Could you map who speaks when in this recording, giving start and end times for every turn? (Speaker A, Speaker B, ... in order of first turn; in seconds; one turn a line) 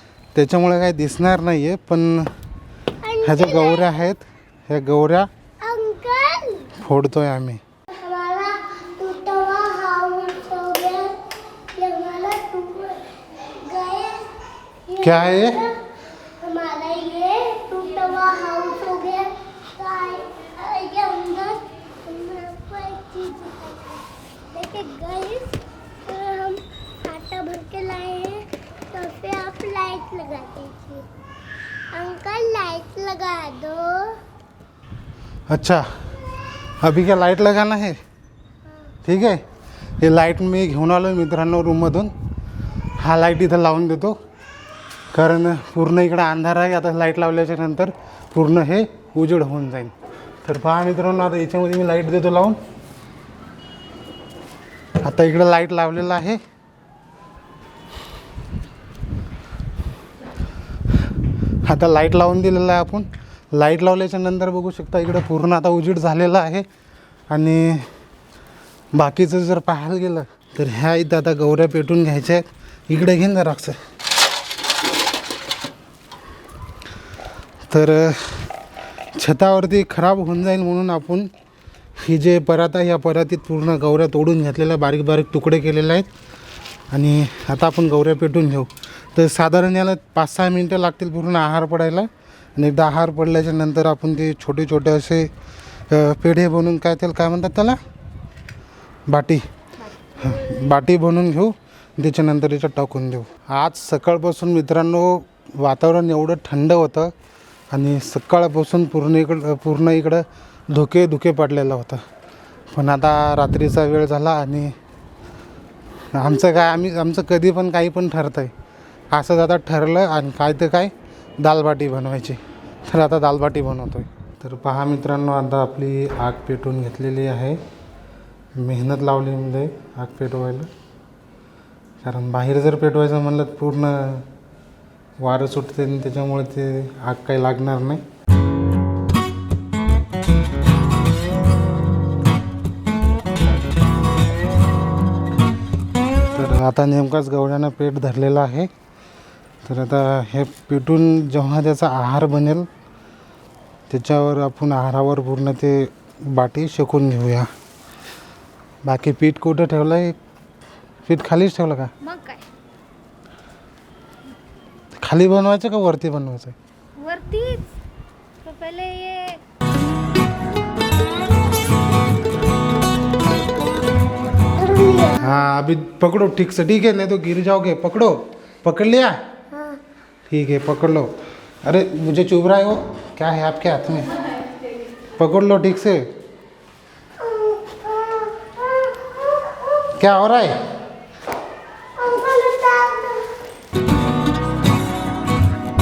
Speaker A: 0.3-2.3
Speaker B: 3.0-4.0
Speaker A: 3.2-5.3
Speaker B: 5.6-6.7
Speaker A: 6.8-7.6
Speaker B: 7.9-11.2
Speaker B: 11.7-14.3
Speaker B: 14.9-15.8
Speaker A: 15.0-15.7
Speaker B: 16.4-31.1
Speaker B: 31.9-34.2
Speaker A: 35.5-35.9
Speaker A: 36.8-38.0
Speaker A: 39.0-39.4
Speaker A: 40.0-42.1
Speaker A: 43.0-44.2
Speaker A: 45.1-49.9
Speaker A: 50.4-52.6
Speaker A: 55.0-56.4
Speaker A: 61.6-66.7
Speaker A: 67.3-67.9
Speaker A: 68.9-73.8
Speaker A: 77.7-78.5
Speaker A: 79.2-81.3
Speaker A: 82.0-86.1
Speaker A: 86.9-95.3
Speaker A: 95.9-97.8
Speaker A: 99.1-99.4
Speaker A: 100.2-107.1
Speaker A: 107.7-112.0
Speaker A: 112.7-114.7
Speaker A: 116.1-118.5
Speaker A: 119.1-127.6
Speaker A: 128.6-130.7
Speaker A: 132.0-134.3
Speaker A: 135.2-138.0
Speaker A: 146.3-148.7
Speaker A: 149.7-152.7
Speaker A: 153.9-157.5
Speaker A: 158.8-160.2
Speaker A: 161.1-161.9
Speaker C: 162.0-162.4
Speaker A: 165.0-166.6
Speaker C: 167.0-167.7
Speaker C: 168.4-169.4
Speaker B: 174.6-175.2
Speaker A: 175.2-179.2
Speaker B: 179.6-179.8
Speaker A: 180.3-181.1
Speaker A: 181.6-184.1
Speaker A: 185.2-186.1
Speaker B: 187.2-189.9
Speaker A: 190.0-190.6
Speaker B: 192.0-193.3